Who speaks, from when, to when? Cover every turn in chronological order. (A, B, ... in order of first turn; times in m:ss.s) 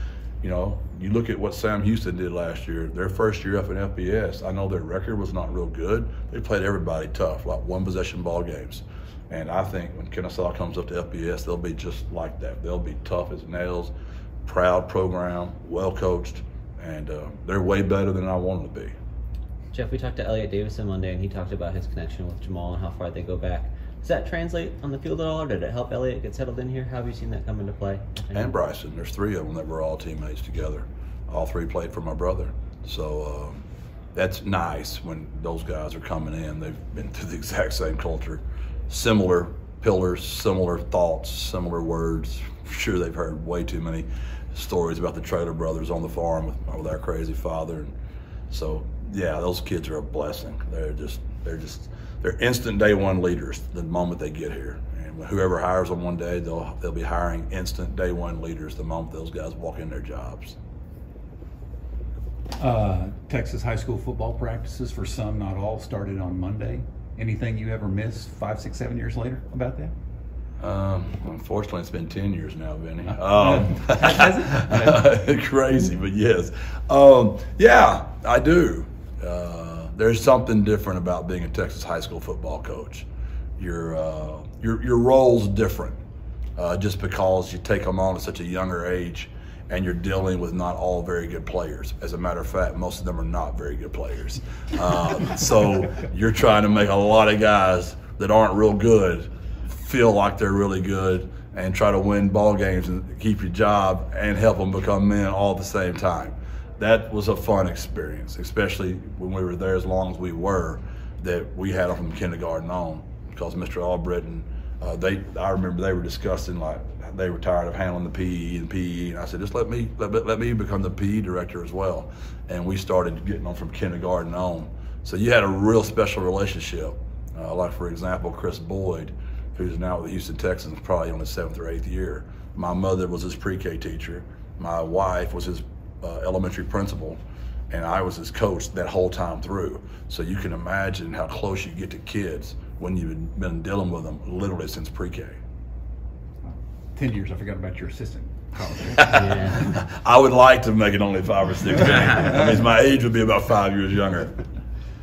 0:00.4-0:13.9 A
0:14.4-0:18.9 A
0:19.7-0:28.4 B
0:28.3-0:33.6 A
0:34.1-0:47.9 A
0:48.5-1:00.6 A
1:02.6-1:09.9 C
1:10.6-1:23.0 A
1:13.6-1:14.7 C
1:23.6-1:26.0 A
1:26.6-2:17.2 A
2:17.7-2:25.4 A
2:26.4-2:29.5 C
2:29.0-2:34.3 A
2:29.2-2:29.6 B